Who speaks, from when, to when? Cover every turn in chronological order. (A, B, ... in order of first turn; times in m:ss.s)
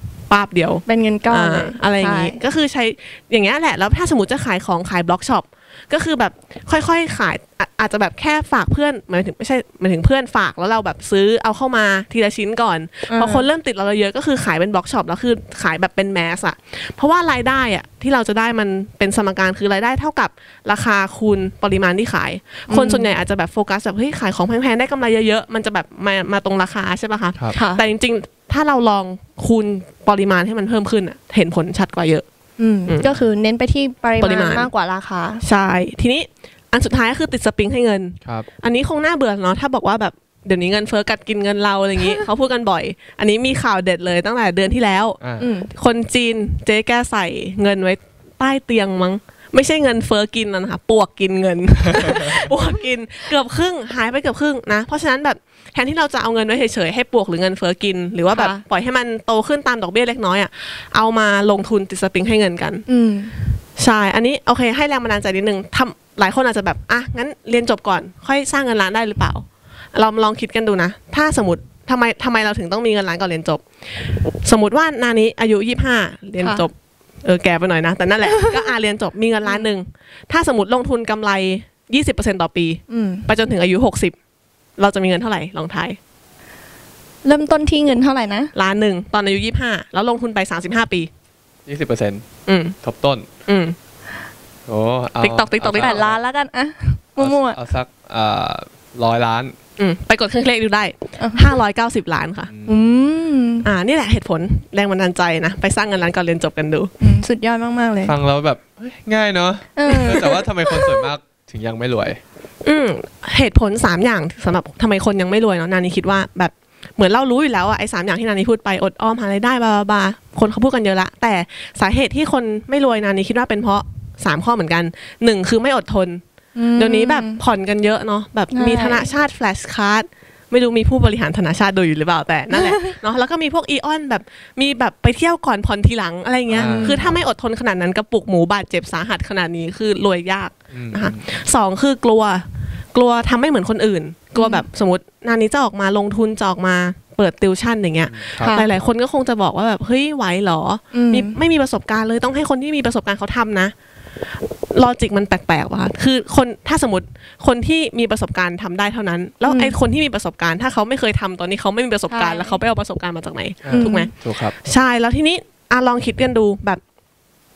0:00.3-0:32.2 A
0:00.9-0:02.4 B
0:13.1-0:13.4 B
0:22.7-0:23.1 B
0:27.5-0:27.8 B
0:32.6-0:35.4 B
0:32.9-0:33.1 A
0:34.2-0:34.7 A
0:35.4-1:02.9 A
0:45.2-0:45.5 C
0:45.4-0:45.7 B
0:52.0-0:52.3 C
0:58.3-0:58.6 B
1:02.9-1:03.4 B
1:03.8-1:13.6 A
1:14.4-1:16.7 A
1:16.4-1:16.7 B
1:17.2-1:24.1 A
1:22.9-1:23.3 B
1:24.8-1:26.0 A
1:27.2-1:28.5 B
1:28.5-1:31.1 A
1:31.6-1:32.2 C
1:32.4-1:32.8 A
1:32.8-1:33.3 C
1:33.5-1:33.8 A
1:34.7-1:36.2 C
1:35.2-1:36.0 A
1:35.7-1:37.6 B
1:37.2-1:39.6 C
1:39.8-1:42.5 A
1:41.2-1:41.5 B
1:42.5-1:42.8 C
1:42.6-1:43.7 B
1:43.6-1:46.9 A
1:47.0-1:48.1 B
1:48.0-1:52.2 C
1:49.8-1:51.1 B
1:52.6-2:06.2 A
2:06.6-2:07.4 B
2:06.8-2:33.7 A
2:08.5-2:09.1 B
2:12.5-2:12.8 B
2:16.5-2:17.2 C
2:16.6-2:17.0 B
2:20.7-2:21.3 C
2:24.4-2:24.6 B
2:28.1-2:28.8 C
2:28.4-2:28.6 B
2:30.9-2:31.4 B
2:34.7-2:46.8 A
2:39.4-2:39.7 B
2:42.1-2:42.6 B
2:43.6-2:44.6 C
2:43.7-2:44.1 B